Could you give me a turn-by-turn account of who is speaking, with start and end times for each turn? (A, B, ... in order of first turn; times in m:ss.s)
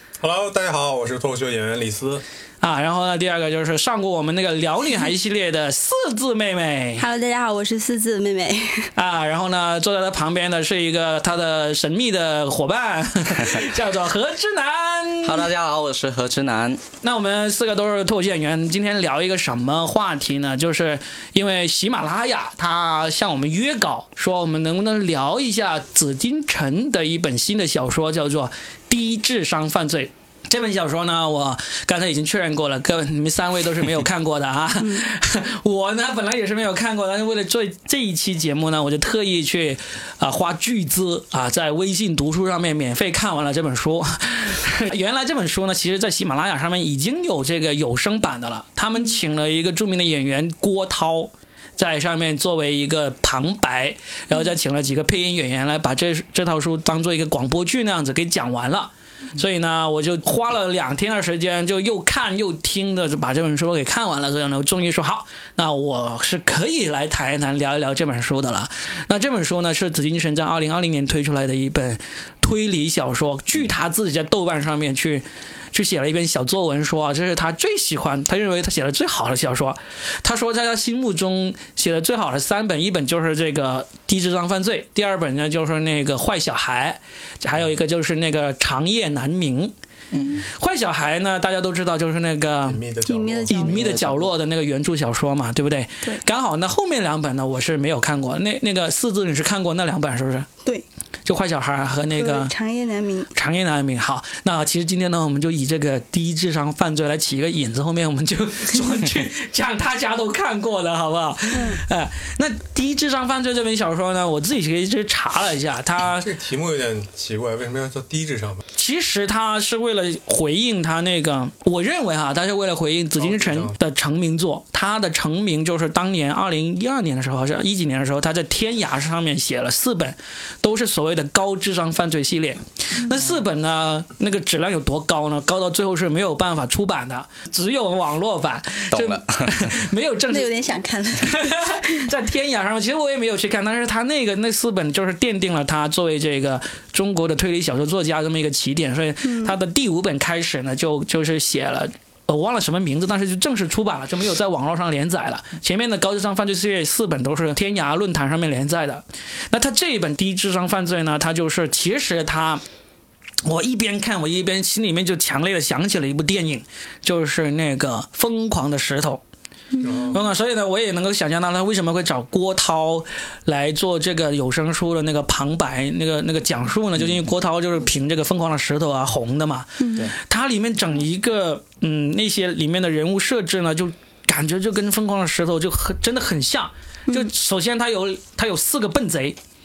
0:00.2-0:02.2 A
0:02.6-0:07.1 B
0:07.0-0:08.9 C
0:09.0-0:15.5 B
0:15.2-0:16.8 D
0:17.0-1:29.7 B
1:30.1-1:30.4 D
1:30.3-1:32.8 B
1:32.6-1:34.0 A
1:33.1-1:33.8 C
1:33.5-1:40.5 B
1:33.8-1:34.2 D
1:41.2-1:42.5 B
1:42.2-1:43.3 C
1:43.3-1:56.3 B
1:51.5-1:51.8 C
1:56.2-1:58.6 A
1:58.8-2:20.5 B
2:03.2-2:03.8 A
2:18.9-2:19.7 D
2:20.3-2:21.9 C
2:21.2-2:42.6 B
2:29.2-2:29.6 C
2:43.4-2:49.2 B
2:49.7-2:50.2 C
2:49.8-2:50.2 A
2:50.1-3:09.4 B
2:59.8-3:00.1 C